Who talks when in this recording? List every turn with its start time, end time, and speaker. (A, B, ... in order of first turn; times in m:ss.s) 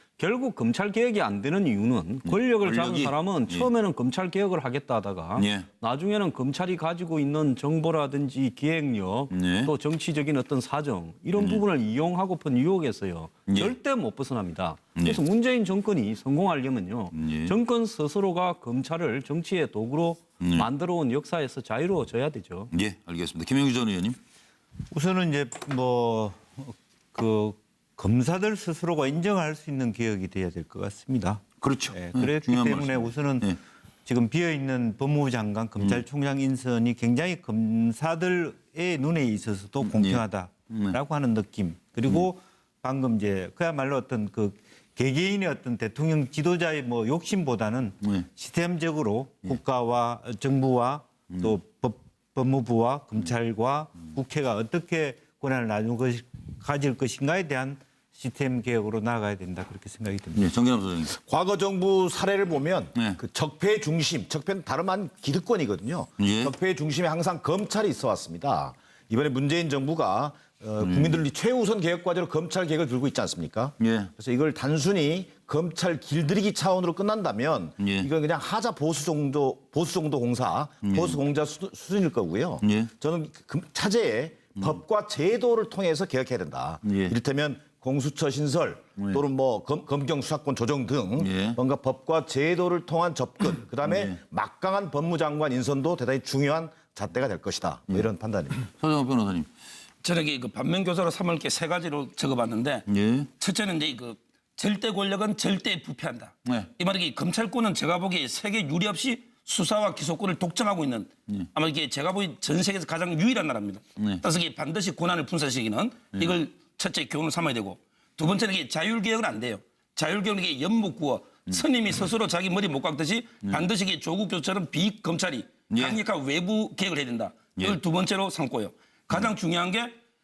0:00.2-0:22.7 A
0:02.2-0:03.7 B
0:05.4-0:05.6 B
0:09.3-0:09.7 B
0:11.3-0:11.6 B
0:13.5-0:13.7 B
0:15.0-0:15.2 B
0:17.1-0:17.6 B
0:20.4-0:20.7 B
0:22.7-0:24.2 B
0:24.9-0:33.5 C
0:31.6-0:33.6 B
0:34.0-1:00.4 C
0:39.8-0:41.0 B
0:48.0-0:48.3 B
0:51.3-0:51.6 B
1:00.3-1:01.1 B
1:01.1-1:38.6 D
1:06.2-1:06.5 B
1:10.8-1:11.2 B
1:13.8-1:14.1 B
1:17.8-1:18.1 B
1:20.8-1:21.2 B
1:22.6-1:22.9 B
1:26.8-1:27.1 B
1:29.0-1:29.2 B
1:31.2-1:31.6 B
1:33.8-1:34.2 B
1:38.8-1:39.5 B
1:40.0-1:42.9 E
1:42.9-1:43.3 B
1:43.4-2:10.0 E
2:05.7-2:06.0 B